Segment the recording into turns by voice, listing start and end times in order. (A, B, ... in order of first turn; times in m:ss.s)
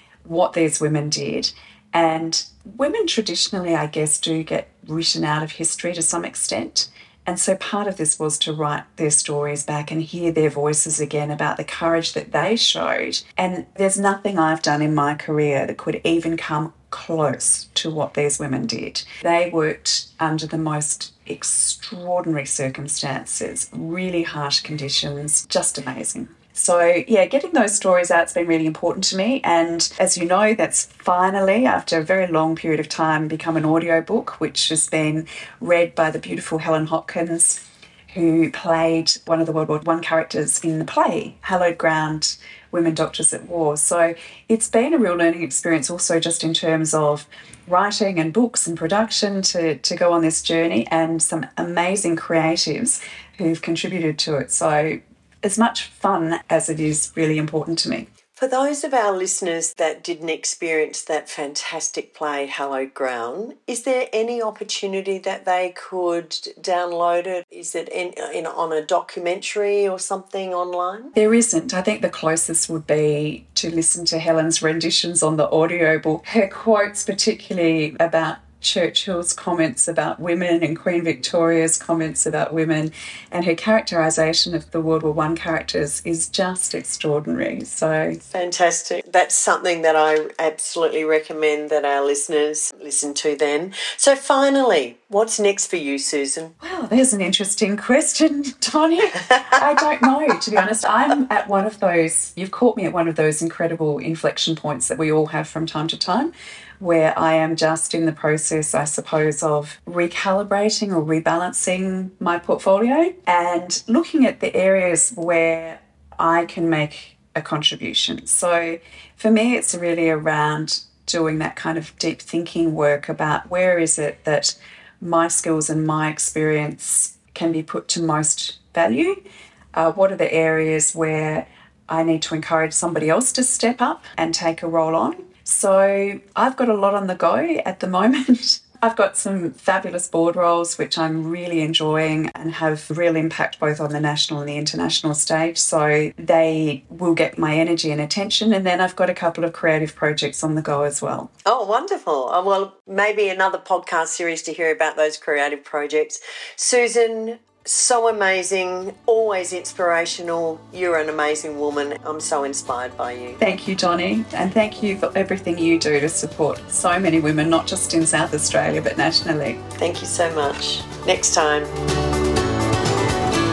0:00.2-0:58.1 A
0:58.3-1:11.1 B
1:11.1-1:28.2 A
1:28.3-1:36.5 B
1:36.6-2:09.2 A
2:09.7-2:31.3 A
2:31.4-2:43.4 B
2:43.4-2:49.6 A
2:49.8-2:51.7 B